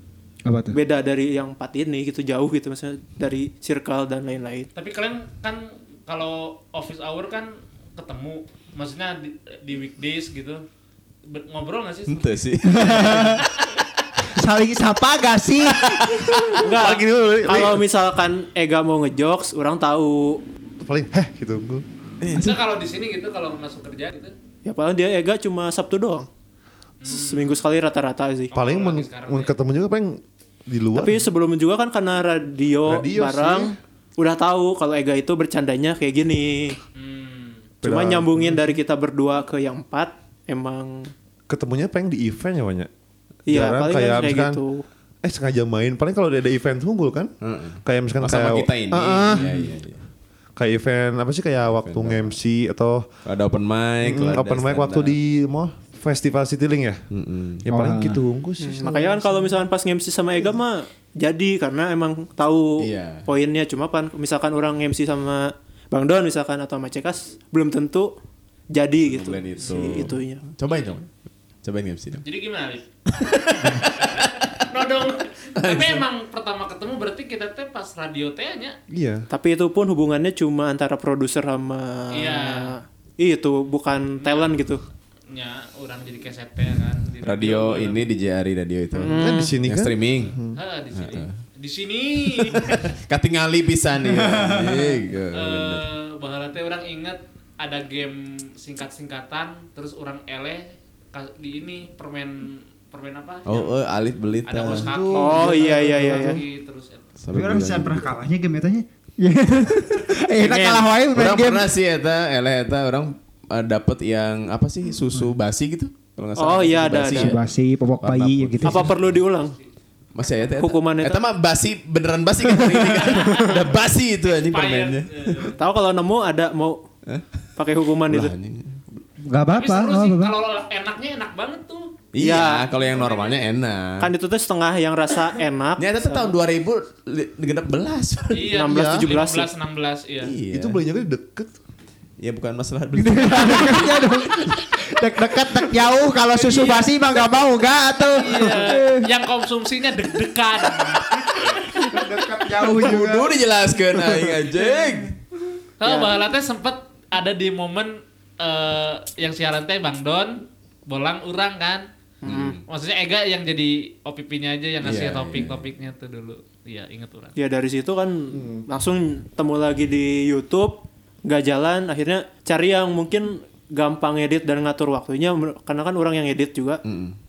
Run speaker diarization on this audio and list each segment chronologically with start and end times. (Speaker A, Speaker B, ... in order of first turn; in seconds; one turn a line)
Speaker A: 0.5-0.8
Speaker B: 0.7-4.7
Speaker C: 4.8-10.6
Speaker C: 11.2-13.9
Speaker D: 12.1-13.3
Speaker A: 12.7-13.5
Speaker A: 14.3-16.4
Speaker D: 15.9-16.5
Speaker B: 16.6-20.4
Speaker E: 16.7-17.8
Speaker E: 20.8-21.9
Speaker D: 22.2-22.5
Speaker A: 22.4-22.6
Speaker C: 22.4-24.3
Speaker B: 24.6-26.3
Speaker C: 27.0-27.5
Speaker B: 27.1-28.5
Speaker C: 28.5-29.5
Speaker E: 28.5-31.3
Speaker B: 30.9-36.8
Speaker E: 32.9-33.7
Speaker C: 37.0-37.7
Speaker E: 37.8-38.8
Speaker B: 37.8-41.1
Speaker E: 41.5-42.9
Speaker B: 43.5-44.9
Speaker E: 43.5-44.6
Speaker E: 45.2-49.7
Speaker D: 47.4-50.0
Speaker E: 50.6-53.1
Speaker D: 51.7-52.4
Speaker D: 53.2-55.2
Speaker E: 54.0-57.0
Speaker D: 57.1-57.6
Speaker E: 57.6-59.5
Speaker A: 57.7-58.2
Speaker B: 58.6-68.2
Speaker D: 62.8-63.3
Speaker B: 68.7-70.4
Speaker D: 69.1-71.1
Speaker D: 71.6-72.3
Speaker C: 72.2-72.8
Speaker D: 73.1-74.6
Speaker C: 73.7-78.8
Speaker D: 75.6-76.0
Speaker E: 78.9-79.3
Speaker B: 79.3-84.8
Speaker C: 82.1-82.8
Speaker C: 84.2-84.6
Speaker C: 85.3-88.1
Speaker D: 87.2-90.4
Speaker B: 89.0-89.5
Speaker E: 89.1-90.6
Speaker C: 90.5-92.9
Speaker D: 90.9-91.3
Speaker D: 92.5-95.8
Speaker C: 95.3-103.7
Speaker D: 103.5-105.0
Speaker C: 104.5-107.1
Speaker E: 104.7-106.4
Speaker B: 105.1-106.4
Speaker D: 107.2-108.1
Speaker A: 107.3-111.7
Speaker D: 110.5-117.5
Speaker B: 116.4-117.3
Speaker A: 116.9-118.9
Speaker D: 118.0-118.8
Speaker B: 118.6-119.5
Speaker D: 120.1-125.5
Speaker B: 120.6-121.2
Speaker C: 123.1-123.7
Speaker C: 124.3-125.6
Speaker B: 125.6-126.8
Speaker B: 127.6-128.3
Speaker D: 128.1-128.8
Speaker A: 129.3-130.3
Speaker C: 129.6-132.0
Speaker D: 132.1-134.1
Speaker B: 132.2-132.7
Speaker C: 132.8-133.4
Speaker B: 134.0-136.3
Speaker D: 135.8-138.6
Speaker C: 138.3-140.4
Speaker B: 138.5-139.5
Speaker E: 138.7-139.1
Speaker D: 140.2-140.8
Speaker E: 140.4-141.6
Speaker D: 142.2-144.3
Speaker A: 142.9-149.1
Speaker C: 146.3-146.9
Speaker C: 148.1-151.2
Speaker A: 151.6-153.3
Speaker D: 152.6-155.2
Speaker C: 155.8-161.9
Speaker B: 155.8-156.1
Speaker B: 162.2-162.6
Speaker D: 162.2-162.6
Speaker C: 162.7-167.4
Speaker D: 164.8-165.7
Speaker B: 167.4-176.8
Speaker E: 168.3-168.7
Speaker D: 176.8-177.2